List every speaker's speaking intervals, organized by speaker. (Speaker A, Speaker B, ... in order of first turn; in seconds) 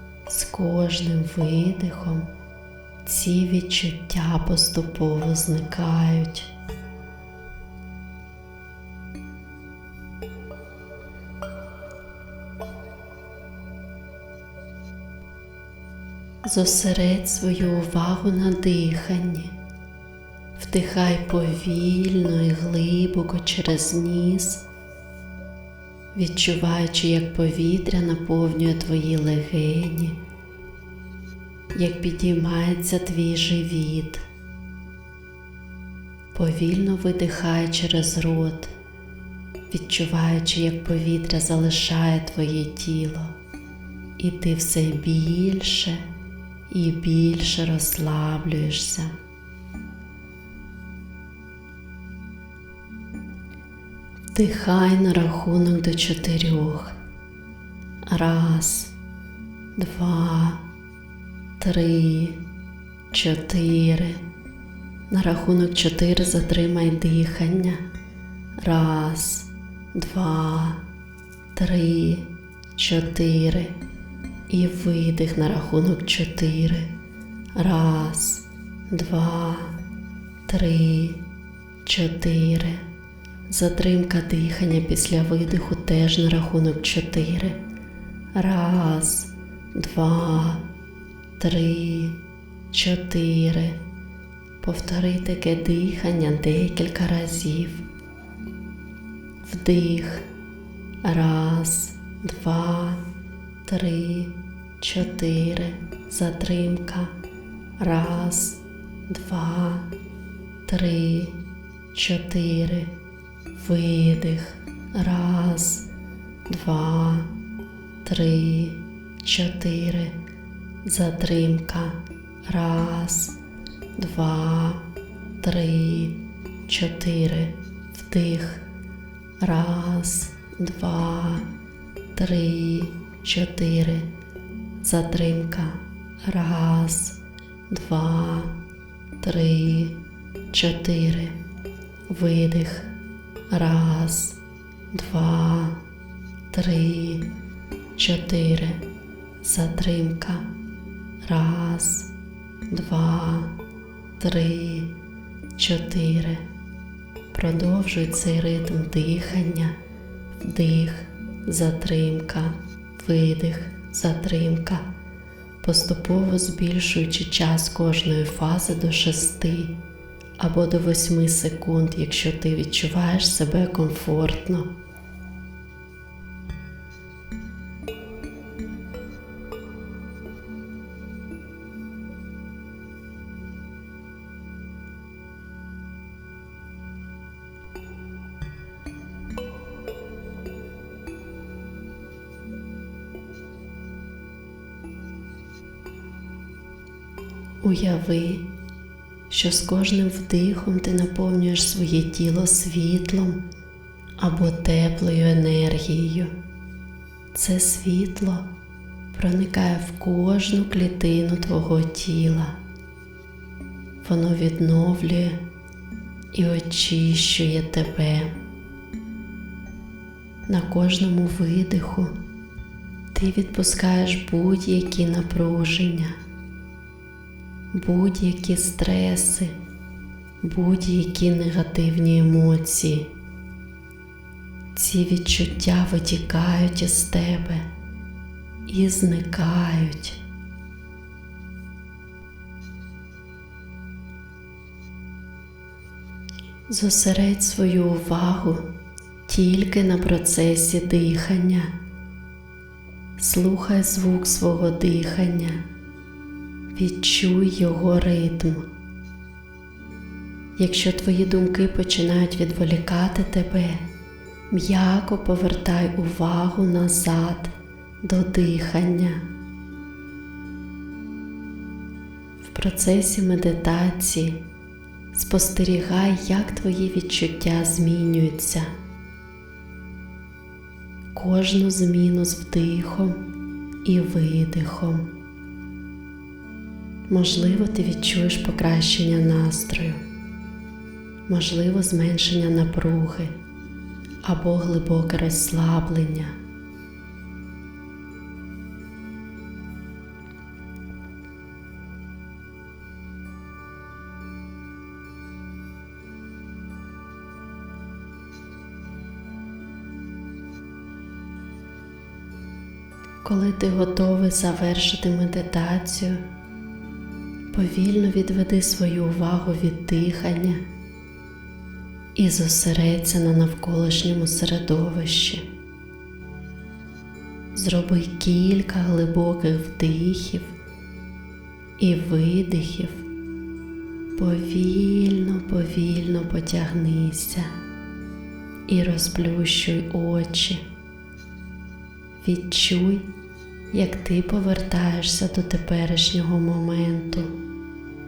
Speaker A: 0.3-2.3, 3.0-6.5, 16.4-19.5, 20.6-24.6, 26.1-30.2, 31.7-34.2, 36.3-38.7, 39.7-43.3, 44.2-46.1, 46.7-49.1, 54.3-57.0, 58.1-58.9, 59.8-60.6, 61.6-62.4, 63.1-64.2, 65.1-67.8, 68.6-70.8, 71.5-73.8, 74.5-76.9, 77.5-79.8, 80.5-81.2, 81.8-82.8, 83.5-87.6, 88.3-90.6, 91.4-92.2, 92.7-93.8, 94.6-97.8, 99.4-100.3, 101.0-103.0, 103.7-107.1, 107.8-109.9, 110.7-111.3, 111.9-112.9, 113.5-115.8, 116.5-117.3, 118.0-120.2, 120.8-123.3, 124.0-124.8, 125.4-128.7, 129.4-131.5, 132.2-134.1, 134.8-137.2, 137.7-138.5, 139.2-140.0, 140.5-141.4, 142.1-142.9, 143.5-144.4, 144.9-145.8, 146.5-147.2, 148.0-148.8, 149.4-150.5, 151.2-152.1, 152.7-153.5, 154.2-154.9, 155.6-156.4, 157.3-159.8, 160.4-164.8, 165.6-169.7, 170.4-174.7, 197.6-198.4, 199.3-203.4, 204.2-206.3, 207.3-208.5, 209.1-212.6, 214.0-215.4, 216.3-218.3, 220.5-222.1, 223.1-226.2, 227.7-229.6, 230.4-233.1, 234.7-237.7, 238.7-240.2, 246.7-248.7, 249.3-251.7, 253.2-255.6, 256.7-258.7, 260.6-263.8, 264.5-269.2, 272.4-274.4, 275.1-278.7, 281.1-283.2, 283.8-285.1, 287.1-290.0, 291.3-293.3, 294.2-296.4, 313.2-316.2, 317.5-320.6, 322.1-325.5, 327.5-330.5, 331.8-333.1, 334.2-337.5, 338.7-340.6, 342.2-343.1, 343.7-347.3